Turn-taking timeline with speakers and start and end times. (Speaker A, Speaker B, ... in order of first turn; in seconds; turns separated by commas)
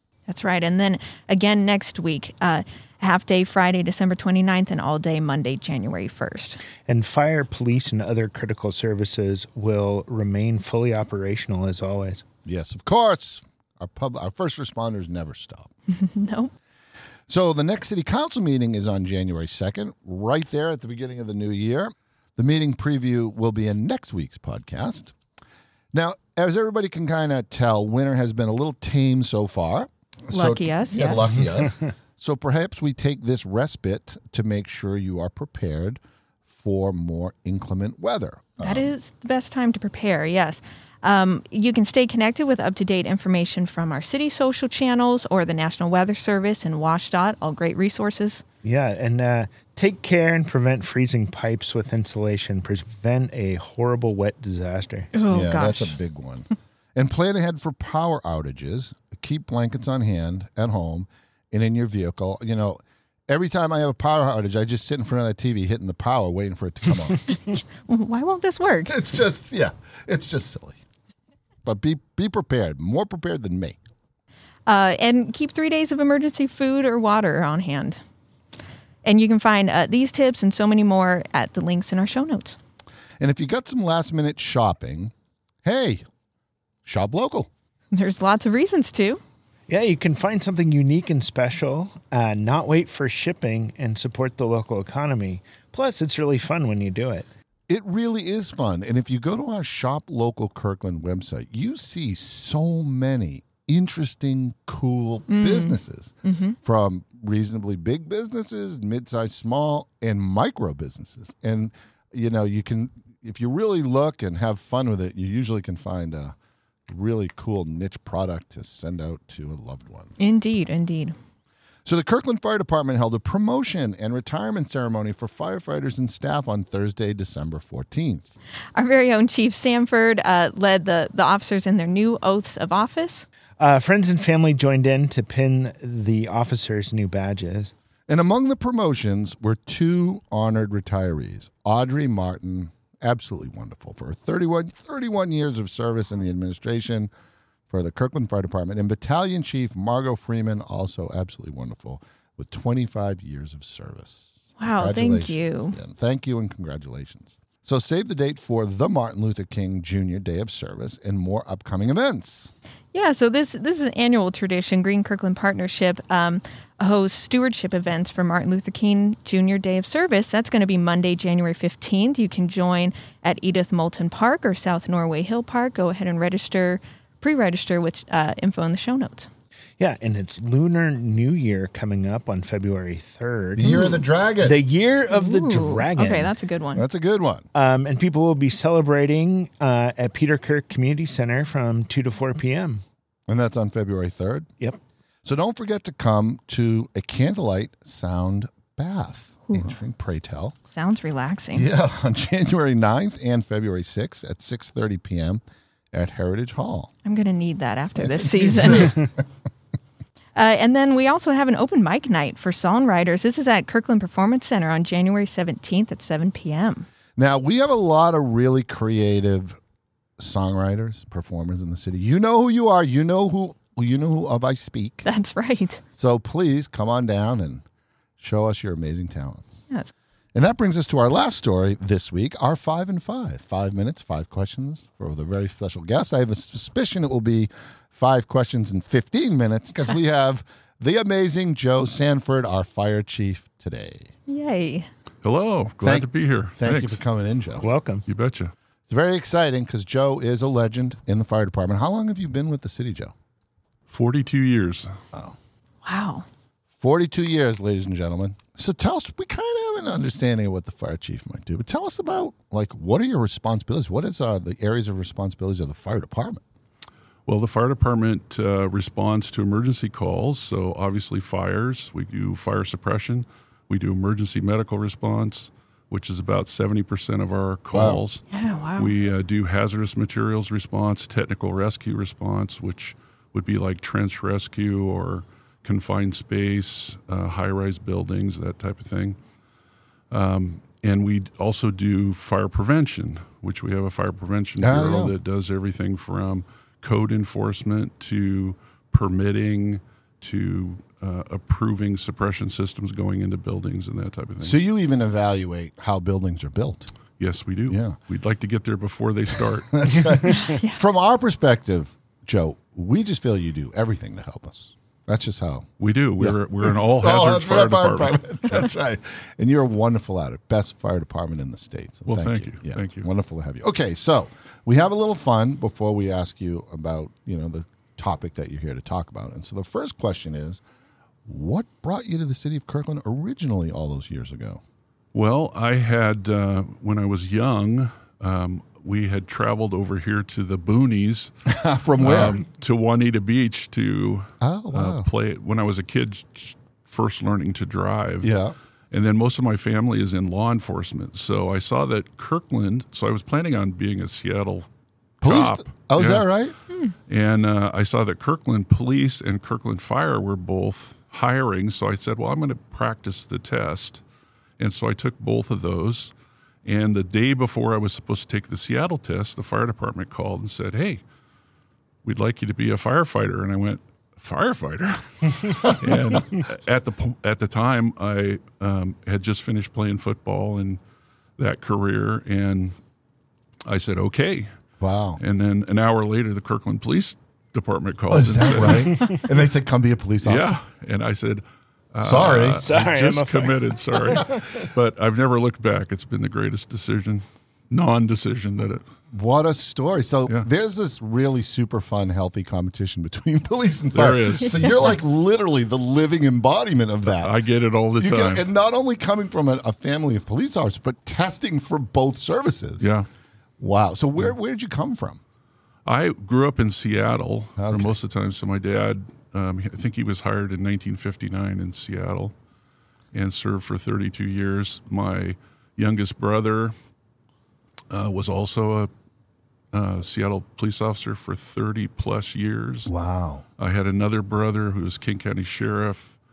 Speaker A: 0.3-6.6, Speaker B: 6.8-12.2, Speaker C: 12.5-15.7, Speaker A: 15.9-16.5, Speaker C: 17.3-25.1, Speaker C: 25.9-38.9, Speaker A: 30.3-31.3, Speaker A: 38.6-48.4, Speaker B: 48.6-55.1, Speaker A: 55.1-56.0, Speaker C: 55.3-67.2, Speaker A: 67.5-68.9, Speaker C: 68.9-70.8, Speaker C: 71.7-73.8, Speaker A: 74.7-78.0, Speaker A: 79.0-82.6, Speaker C: 83.2-85.1, Speaker C: 85.6-86.0, Speaker C: 86.8-87.5, Speaker A: 87.9-89.2, Speaker B: 89.7-97.3, Speaker C: 97.7-116.3, Speaker A: 105.3-106.6, Speaker C: 116.9-120.1, Speaker A: 120.2-121.2, Speaker C: 121.8-128.3, Speaker A: 128.8-133.3, Speaker B: 133.6-137.7, Speaker C: 138.1-147.1, Speaker C: 147.7-162.5, Speaker A: 154.6-155.8, Speaker A: 162.9-179.3, Speaker B: 179.8-186.3, Speaker C: 183.6-184.6, Speaker A: 183.7-183.9, Speaker A: 185.1-186.8, Speaker C: 186.7-187.5, Speaker B: 187.5-192.8, Speaker C: 193.3-194.5, Speaker C: 195.2-200.6, Speaker A: 200.7-201.7, Speaker C: 201.5-206.9, Speaker A: 207.0-209.1, Speaker C: 208.0-209.1, Speaker A: 210.4-216.9, Speaker C: 217.2-219.6, Speaker C: 220.2-225.1, Speaker A: 225.0-225.8, Speaker C: 225.9-227.6, Speaker C: 228.2-229.6, Speaker C: 230.3-244.1, Speaker A: 244.3-244.9, Speaker D: 245.2-247.0, Speaker C: 245.8-247.7, Speaker B: 247.6-248.1, Speaker D: 248.1-248.5, Speaker C: 248.9-253.1, Speaker D: 253.9-254.9, Speaker A: 255.8-256.2, Speaker C: 256.8-266.4, Speaker D: 267.3-278.2, Speaker C: 277.7-278.1, Speaker A: 278.3-278.9, Speaker D: 278.8-289.2, Speaker D: 290.1-304.6, Speaker C: 294.6-295.1, Speaker C: 304.4-306.9, Speaker D: 307.2-309.8, Speaker C: 307.7-308.0, Speaker C: 309.7-330.6, Speaker A: 310.4-310.8, Speaker D: 315.8-318.2, Speaker D: 322.1-323.1, Speaker C: 331.3-334.6, Speaker D: 335.1-341.3, Speaker C: 341.5-342.4, Speaker D: 342.0-348.3, Speaker C: 344.4-345.1, Speaker C: 348.2-348.6, Speaker D: 348.9-354.7, Speaker C: 355.2-356.6, Speaker D: 355.2-356.3, Speaker D: 357.1-364.0, Speaker D: 364.6-366.1, Speaker D: 366.6-371.0, Speaker D: 372.0-380.8, Speaker D: 381.4-382.8, Speaker D: 383.6-384.5, Speaker C: 384.8-385.2, Speaker D: 385.2-388.9, Speaker C: 388.1-390.5, Speaker D: 390.2-398.8, Speaker C: 392.0-392.6, Speaker B: 392.6-394.5, Speaker C: 399.1-407.4, Speaker D: 403.9-404.7, Speaker D: 407.2-408.5, Speaker C: 408.0-412.9, Speaker D: 412.8-413.1, Speaker C: 413.6-415.2, Speaker D: 415.9-422.3, Speaker C: 417.6-418.0, Speaker D: 423.1-426.8, Speaker D: 427.9-428.9, Speaker D: 429.7-432.9, Speaker C: 432.9-433.4, Speaker D: 433.6-436.2